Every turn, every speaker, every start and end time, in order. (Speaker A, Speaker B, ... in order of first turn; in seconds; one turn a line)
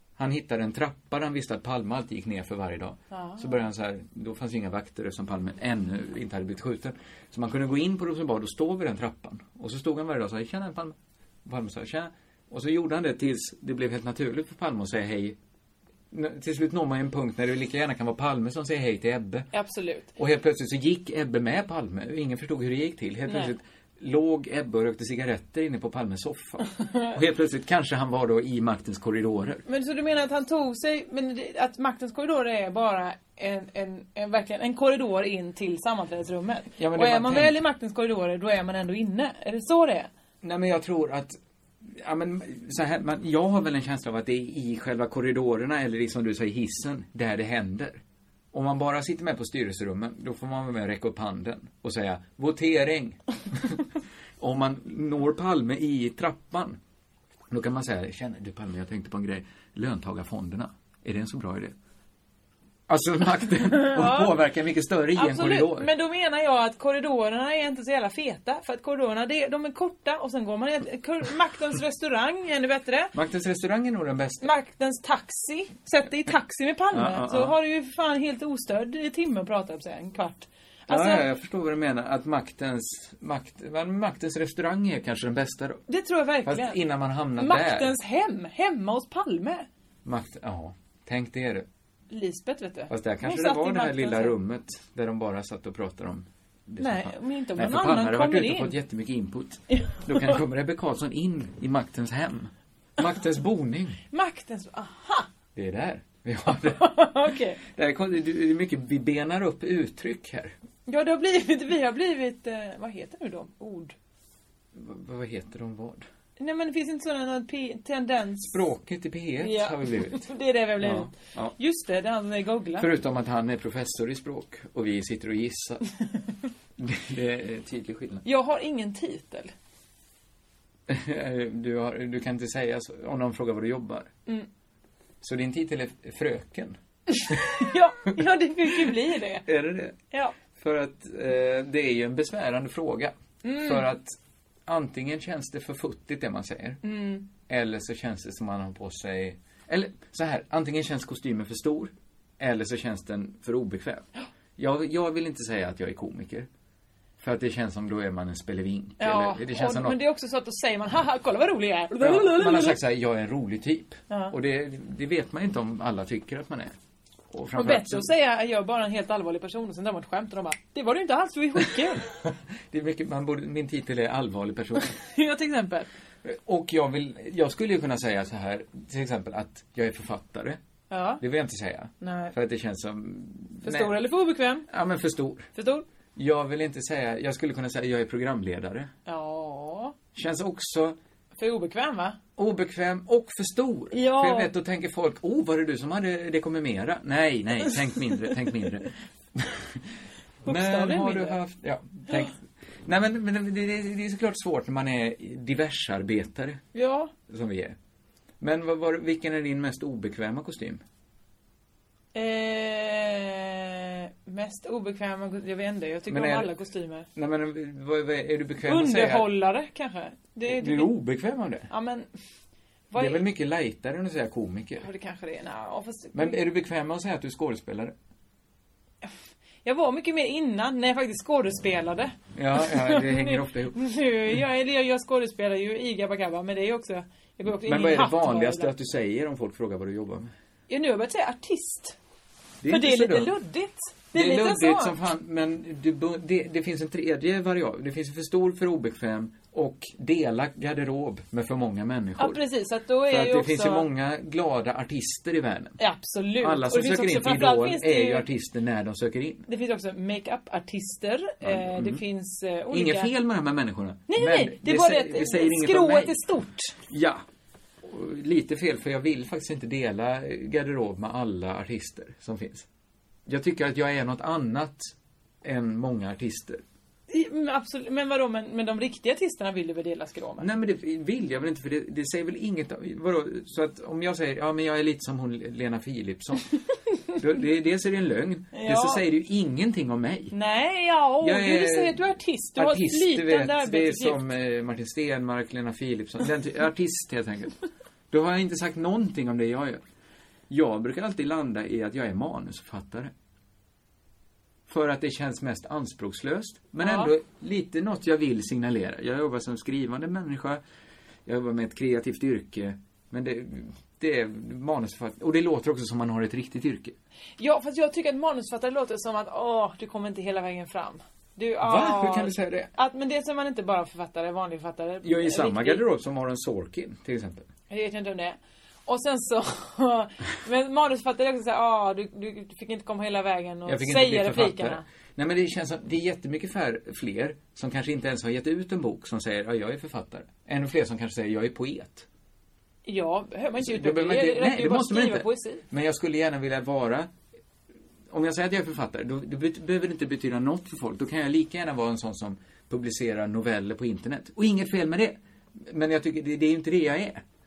Speaker A: 0.2-15.4
Speaker B: 3.1-3.5
Speaker A: 16.1-19.5
Speaker B: 19.5-20.1
Speaker A: 20.2-29.6
Speaker B: 23.3-23.5
Speaker B: 29.7-40.1
Speaker A: 36.8-37.6
Speaker A: 40.4-48.0
Speaker A: 48.5-53.9
Speaker A: 54.4-56.8
Speaker A: 57.5-61.7
Speaker A: 62.9-65.9
Speaker B: 63.7-64.4
Speaker B: 65.2-73.1
Speaker A: 73.1-74.5
Speaker B: 74.4-81.2
Speaker A: 76.9-77.5
Speaker A: 80.9-85.8
Speaker B: 85.9-86.8
Speaker A: 86.4-87.9
Speaker B: 87.4-89.7
Speaker A: 90.0-91.7
Speaker B: 92.1-94.4
Speaker A: 92.9-104.0
Speaker B: 96.8-98.8
Speaker B: 99.7-100.4
Speaker B: 104.1-105.3
Speaker A: 105.5-106.9
Speaker B: 106.5-107.6
Speaker A: 107.7-110.5
Speaker B: 110.9-114.0
Speaker A: 114.7-116.1
Speaker B: 116.4-118.6
Speaker A: 118.4-120.2
Speaker B: 119.4-122.9
Speaker A: 120.8-121.5
Speaker A: 122.8-125.8
Speaker A: 126.8-128.2
Speaker B: 128.2-129.5
Speaker A: 130.9-134.1
Speaker A: 135.2-136.8
Speaker B: 137.1-139.5
Speaker A: 137.3-137.6
Speaker A: 138.7-140.0
Speaker B: 140.1-140.4
Speaker A: 140.6-144.2
Speaker B: 143.4-143.9
Speaker A: 144.7-146.8
Speaker B: 146.8-147.3
Speaker A: 147.4-156.5
Speaker A: 157.2-160.0
Speaker B: 159.0-162.8
Speaker A: 162.0-166.7
Speaker A: 167.3-168.1
Speaker B: 167.6-172.1
Speaker A: 172.2-175.0
Speaker B: 174.8-175.9
Speaker A: 176.2-180.6
Speaker B: 180.9-181.2
Speaker A: 181.2-184.0
Speaker B: 182.0-182.3
Speaker B: 183.6-184.7
Speaker A: 184.7-185.5
Speaker B: 185.6-185.8
Speaker A: 186.2-188.9
Speaker B: 189.1-190.0
Speaker A: 190.1-191.0
Speaker B: 191.4-192.2
Speaker A: 192.4-199.9
Speaker B: 193.9-194.5
Speaker A: 200.4-206.6
Speaker B: 200.5-201.4
Speaker B: 206.7-207.1
Speaker A: 207.3-207.8
Speaker A: 208.4-210.8
Speaker B: 212.1-217.1
Speaker A: 216.1-216.5
Speaker A: 217.2-219.3
Speaker B: 218.7-220.9
Speaker A: 220.5-221.7
Speaker B: 221.7-222.1
Speaker B: 222.9-223.2
Speaker A: 223.0-224.9
Speaker B: 224.8-226.4
Speaker A: 226.2-227.9
Speaker B: 229.7-238.7
Speaker A: 232.3-233.8
Speaker A: 237.6-240.3
Speaker B: 240.7-242.0
Speaker A: 242.6-243.3
Speaker B: 242.7-244.9
Speaker A: 244.1-252.4
Speaker B: 252.2-253.9
Speaker A: 253.1-255.8
Speaker B: 255.8-258.3
Speaker A: 256.4-259.5
Speaker B: 259.5-263.1
Speaker A: 261.4-262.0
Speaker A: 262.7-266.2
Speaker B: 264.1-266.8
Speaker A: 266.8-267.2
Speaker A: 267.8-272.7
Speaker A: 273.3-274.9
Speaker A: 275.4-276.6
Speaker B: 277.1-280.5
Speaker A: 280.4-286.5
Speaker A: 287.2-290.4
Speaker B: 288.5-289.0
Speaker B: 290.3-294.3
Speaker A: 291.2-292.0
Speaker A: 292.6-297.5
Speaker A: 298.1-299.8
Speaker A: 300.5-303.1
Speaker A: 304.7-310.6
Speaker B: 306.8-307.1
Speaker A: 311.3-316.9
Speaker B: 317.4-325.9
Speaker A: 321.6-322.7
Speaker A: 325.0-327.5
Speaker B: 327.7-334.8
Speaker A: 333.7-342.1
Speaker B: 342.9-345.6
Speaker A: 343.6-347.1
Speaker A: 348.1-357.2